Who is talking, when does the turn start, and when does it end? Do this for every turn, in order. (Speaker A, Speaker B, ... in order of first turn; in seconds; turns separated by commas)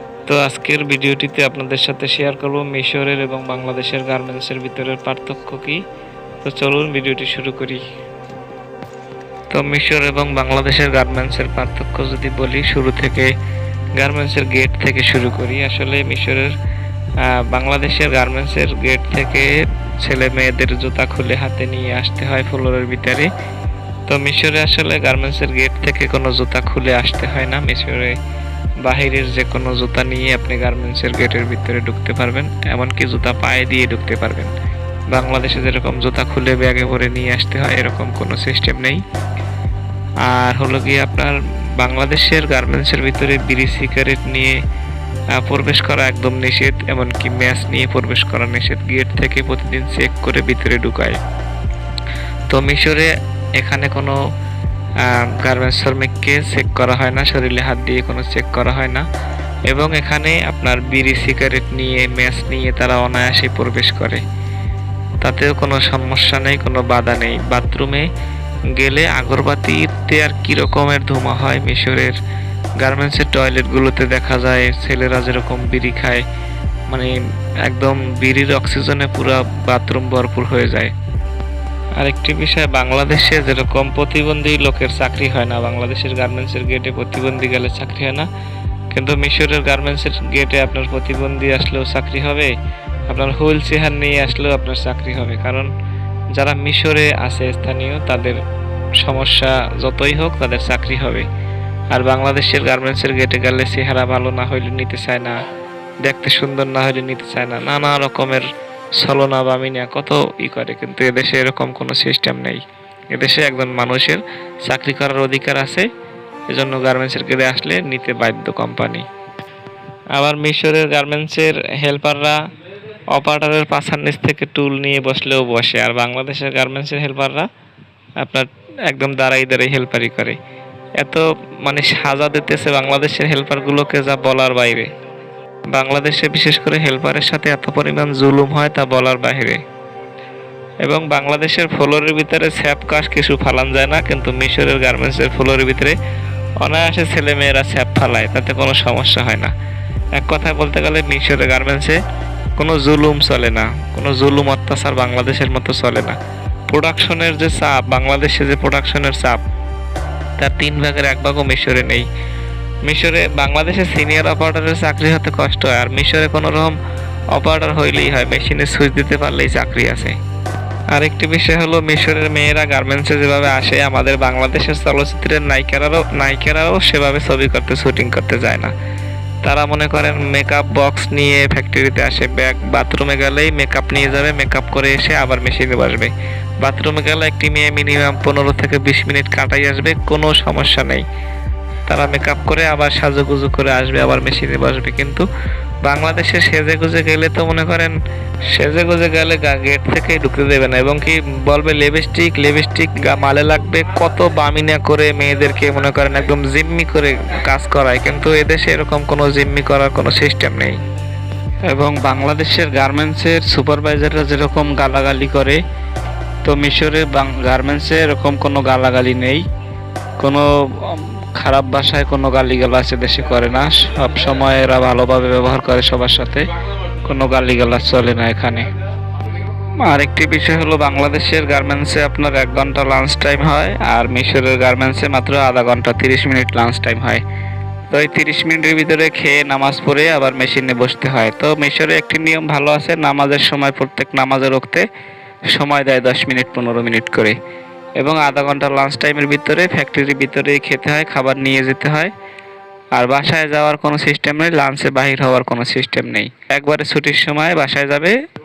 Speaker A: 0.3-5.8, Speaker A: 6.4-7.8, Speaker A: 9.5-13.3, Speaker A: 14.0-16.5, Speaker A: 17.2-23.3, Speaker A: 24.1-28.2, Speaker A: 28.8-34.5, Speaker A: 35.1-39.0, Speaker A: 40.2-44.6, Speaker A: 45.4-51.2, Speaker A: 52.5-54.2, Speaker A: 55.0-59.1, Speaker A: 59.7-64.2, Speaker A: 65.2-68.1, Speaker A: 68.7-72.2, Speaker A: 72.8-76.2, Speaker A: 77.7-80.9, Speaker A: 82.0-88.3, Speaker A: 88.9-92.5, Speaker A: 93.1-95.7, Speaker A: 96.3-98.4, Speaker A: 99.0-101.3, Speaker A: 101.9-105.4, Speaker A: 106.0-108.5, Speaker A: 109.0-115.9, Speaker A: 116.5-119.1, Speaker A: 120.1-122.4, Speaker A: 123.1-127.5, Speaker A: 128.2-130.4, Speaker A: 131.0-134.9, Speaker A: 135.7-139.6, Speaker A: 140.8-146.0, Speaker A: 146.6-149.5, Speaker A: 150.1-152.0, Speaker A: 152.6-156.2, Speaker A: 156.7-159.4, Speaker A: 160.4-162.1, Speaker A: 162.8-166.8, Speaker A: 167.3-170.2, Speaker A: 170.9-178.7, Speaker A: 179.4-191.1, Speaker A: 191.9-195.2, Speaker A: 195.8-197.9, Speaker A: 198.5-210.8, Speaker A: 211.7-215.6, Speaker A: 216.4-219.4, Speaker A: 220.2-226.5, Speaker A: 227.0-228.7, Speaker A: 229.8-237.2, Speaker A: 237.9-244.9, Speaker A: 245.5-247.4, Speaker A: 248.0-252.1, Speaker A: 252.9-258.2